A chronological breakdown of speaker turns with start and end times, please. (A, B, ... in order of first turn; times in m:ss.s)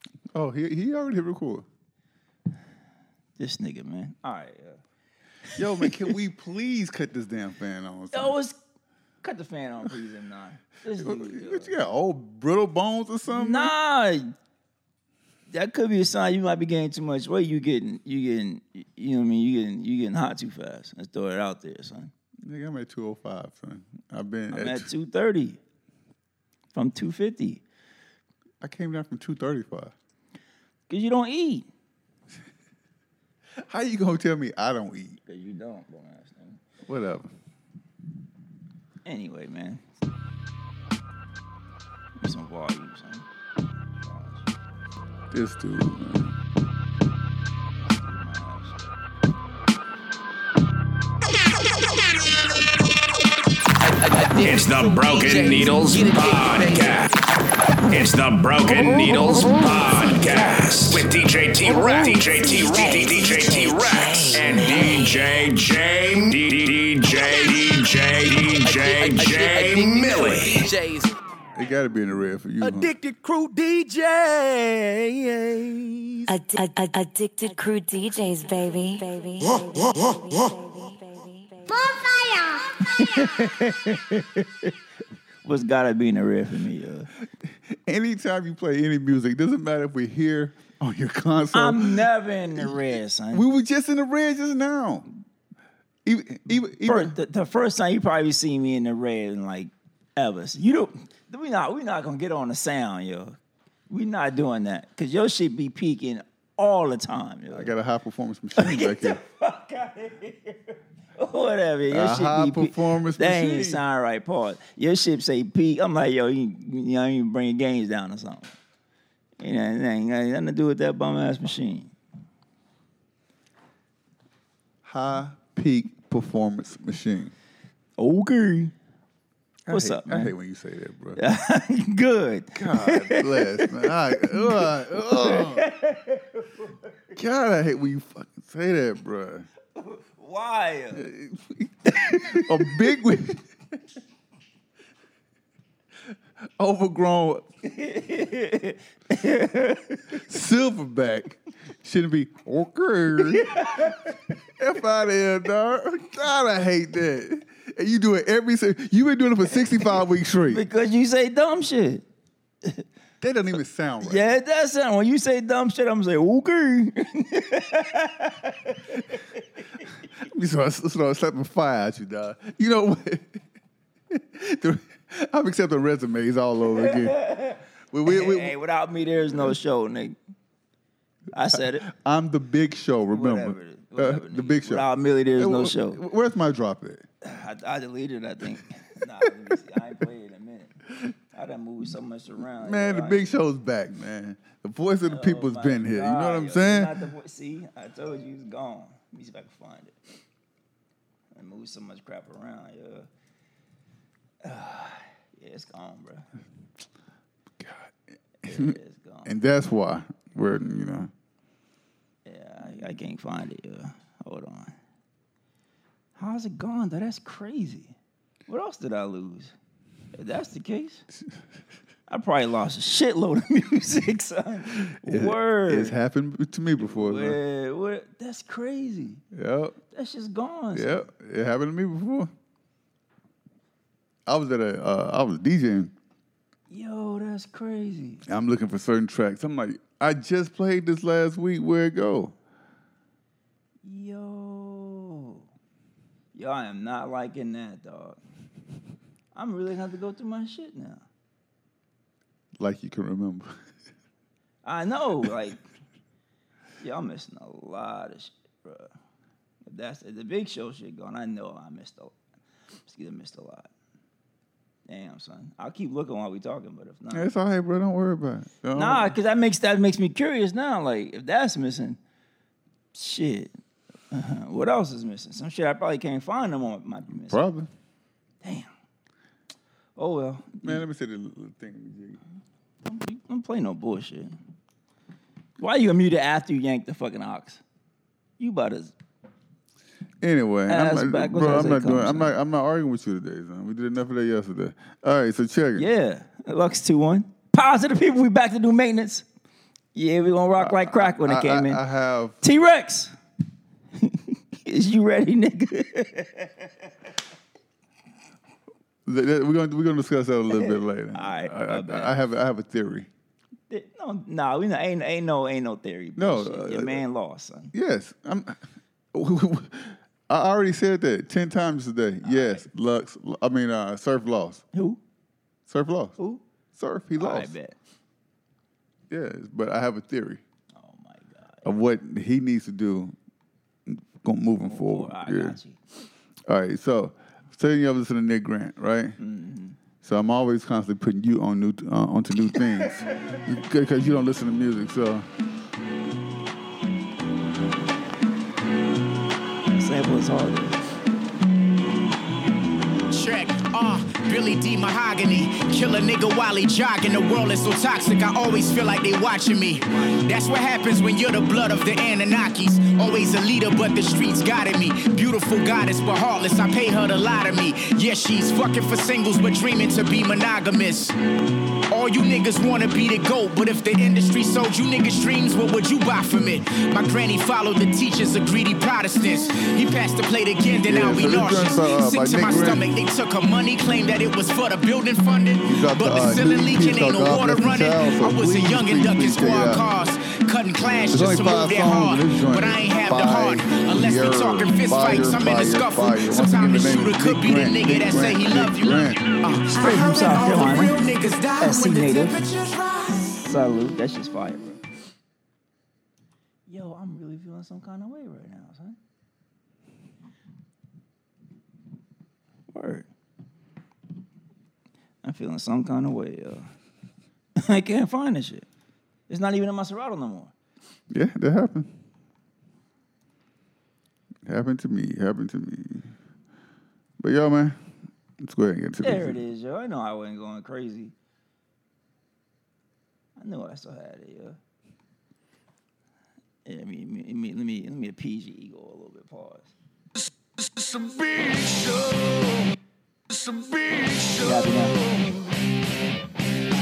0:00.3-0:01.6 A
0:03.4-0:04.8 B
0:05.5-0:06.0 B
0:05.6-0:08.4 A
0:08.1-0:08.6 B
0:09.2-0:11.7 B
0:11.0-0:13.7 A
0:13.3-0:14.3 B
0:15.5-0:22.1 B
0:22.4-0:24.9 A
0:24.5-0:25.6 B
0:26.7-0:27.6 B
0:28.6-0:29.9 A
0:30.9-0:31.7 B
0:33.6-0:35.2 A
0:35.3-0:36.6 B
0:36.8-0:37.3 A
0:39.0-0:39.8 B
0:42.2-0:43.2 B
0:44.0-0:44.5 B
0:45.3-0:46.3 A
0:47.9-0:48.9 B
0:54.1-0:57.1 C
0:54.4-0:57.1 D
0:57.9-1:10.7 D
1:01.7-1:02.2 C
1:02.8-1:05.0 C
1:08.6-1:11.1 C
1:11.6-1:12.9 A
1:12.6-1:16.3 C
1:16.3-1:22.6 E
1:22.9-1:24.7 B
1:25.4-1:27.1 B
1:27.4-1:32.8 A
1:31.5-1:33.4 B
1:33.3-1:35.1 A
1:36.0-1:37.1 A
1:36.5-1:43.4 B
1:43.9-1:47.7 B
1:47.5-1:49.2 A
1:48.6-1:58.5 B
1:51.9-1:53.8 A
1:59.4-2:01.9 B
2:04.8-2:07.3 A
2:08.0-2:08.7 B
2:09.7-2:11.2 A
2:09.7-2:10.3 B
2:11.2-2:16.7 B
2:12.5-2:15.7 A
2:17.1-2:19.5 A
2:19.8-2:21.1 B
2:20.9-2:23.5 A
2:22.0-2:22.8 B
2:26.6-2:27.4 A
2:27.6-2:30.2 B
2:30.1-2:34.0 A
2:33.3-2:34.0 B
2:34.6-2:40.6 A
2:40.5-2:42.0 B
2:43.2-2:44.3 A
2:44.0-2:49.2 B
2:50.2-2:53.4 A
2:54.1-2:57.2 A
2:56.7-3:00.2 B
2:57.9-2:58.6 A
3:01.3-3:01.9 B
3:01.5-3:07.0 A
3:03.1-3:06.0 B
3:07.2-3:10.8 B
3:11.3-3:13.3 B
3:12.6-3:17.0 A
3:15.0-3:19.9 B
3:21.3-3:23.1 B
3:24.4-3:26.3 B
3:27.6-3:31.1 A
3:28.4-3:29.3 B
3:32.2-3:34.7 B
3:36.2-3:37.9 B
3:38.5-3:39.5 B
3:40.1-3:41.0 B
3:42.1-3:46.0 B
3:44.8-3:47.4 A
3:46.8-3:49.2 B
3:49.3-3:49.8 A
3:49.9-3:51.0 B
3:50.7-3:52.3 A
3:54.2-3:55.9 A
3:56.7-3:58.2 B
3:58.2-4:02.3 A
4:03.8-4:05.4 B
4:06.3-4:08.2 B
4:09.3-4:11.0 B
4:12.6-4:13.5 A
4:14.6-4:15.6 B
4:16.8-4:18.9 B
4:19.6-4:22.1 B
4:22.9-4:23.7 B
4:24.9-4:27.3 B
4:27.1-4:29.2 A
4:28.7-4:32.0 B
4:32.9-4:33.5 B
4:34.1-4:37.4 B
4:37.1-4:37.7 A
4:38.4-4:38.7 B
4:40.0-4:40.8 B
4:40.6-4:42.2 A
4:42.8-4:44.4 B
4:45.6-4:47.6 B
4:48.4-4:48.9 B
4:50.2-4:55.9 A
4:50.7-4:52.3 B
4:55.8-4:59.2 B
4:59.9-5:01.8 B
5:00.6-5:02.4 A
5:02.4-5:03.1 B
5:04.0-5:06.7 B
5:09.0-5:13.1 A
5:10.5-5:12.1 B
5:13.7-5:17.7 B
5:16.2-5:17.0 A
5:17.7-5:18.6 A
5:19.1-5:24.6 A
5:22.2-5:22.7 B
5:24.7-5:25.0 B
5:25.7-5:26.2 A
5:26.7-5:27.5 A
5:27.2-5:27.8 B
5:29.1-5:30.4 A
5:30.7-5:31.7 B
5:31.6-5:33.1 A
5:33.9-5:35.6 A
5:34.6-5:35.8 B
5:36.5-5:39.2 A
5:39.2-5:39.8 B
5:40.0-5:45.3 A
5:49.7-5:50.8 B
5:53.1-6:11.1 F
6:11.9-6:43.3 F
6:20.9-6:23.0 A
6:25.6-6:29.8 A
6:31.1-6:39.3 A
6:39.7-6:41.0 B
6:41.6-6:42.4 B
6:43.3-6:44.8 B
6:46.7-6:49.0 B
6:52.7-6:53.1 B
6:55.2-6:56.7 B
6:57.6-6:58.7 B
6:59.3-7:00.5 B
7:01.1-7:01.9 A
7:04.4-7:06.1 A
7:07.2-7:07.8 A
7:08.4-7:09.4 A
7:09.0-7:11.1 B
7:13.4-7:14.6 B
7:16.6-7:19.7 B
7:24.3-7:25.0 B